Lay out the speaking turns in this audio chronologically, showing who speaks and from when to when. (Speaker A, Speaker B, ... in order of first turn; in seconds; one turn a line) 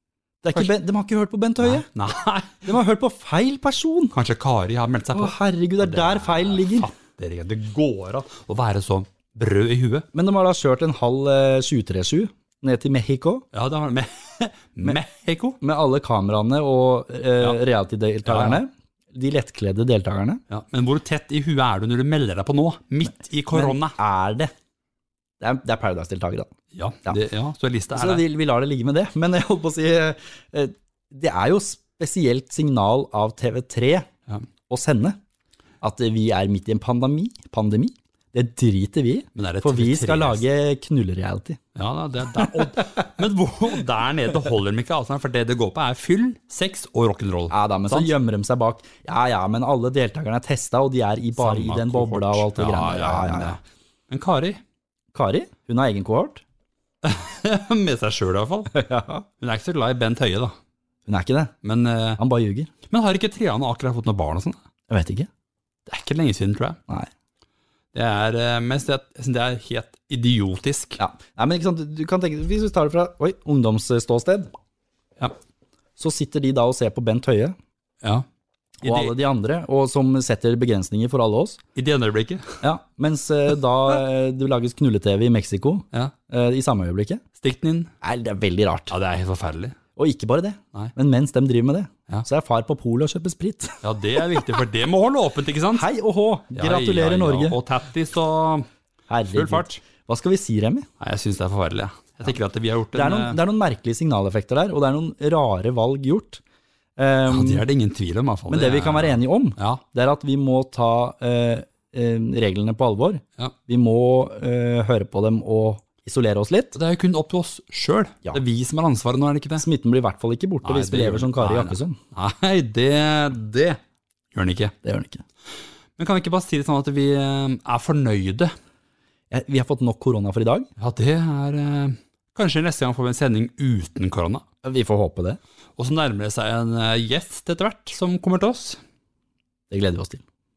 Speaker A: 0.4-1.9
Speaker B: 1.6-2.7
Speaker A: 2.6-4.2
Speaker B: 4.1-10.1
Speaker A: 5.1-6.9
Speaker A: 10.1-13.4
Speaker B: 13.5-15.6
Speaker A: 15.6-20.4
Speaker B: 18.2-18.6
Speaker B: 20.5-23.9
Speaker A: 23.5-24.5
Speaker A: 25.4-26.5
Speaker B: 26.7-28.2
Speaker A: 27.9-34.1
Speaker A: 34.7-35.2
Speaker A: 35.8-41.6
Speaker B: 39.4-40.4
Speaker B: 41.7-48.1
Speaker A: 47.5-53.6
Speaker B: 51.4-54.6
Speaker A: 55.1-56.4
Speaker B: 57.0-58.8
Speaker A: 58.7-59.2
Speaker B: 59.4-60.5
Speaker A: 61.0-61.5
Speaker B: 61.6-62.2
Speaker A: 62.2-62.7
Speaker B: 62.9-64.6
Speaker A: 64.9-65.3
Speaker B: 65.9-66.8
Speaker B: 67.9-71.0
Speaker A: 71.0-74.5
Speaker A: 76.0-77.5
Speaker A: 78.8-81.6
Speaker B: 78.8-79.2
Speaker B: 81.7-82.6
Speaker A: 82.6-87.2
Speaker B: 87.4-87.9
Speaker A: 88.0-89.0
Speaker B: 88.9-89.8
Speaker A: 89.9-93.8
Speaker B: 93.8-95.9
Speaker A: 95.7-97.6
Speaker B: 96.5-98.7
Speaker A: 99.1-100.9
Speaker B: 99.3-99.8
Speaker B: 101.0-103.4
Speaker A: 102.9-106.4
Speaker A: 107.0-107.6
Speaker B: 107.3-109.8
Speaker A: 108.5-116.8
Speaker B: 116.7-119.6
Speaker A: 119.6-122.0
Speaker B: 120.6-123.8
Speaker B: 124.3-124.7
Speaker A: 124.8-125.2
Speaker B: 126.0-128.5
Speaker A: 129.3-130.7
Speaker B: 130.8-134.4
Speaker A: 134.6-135.4
Speaker B: 135.8-138.8
Speaker A: 139.7-140.2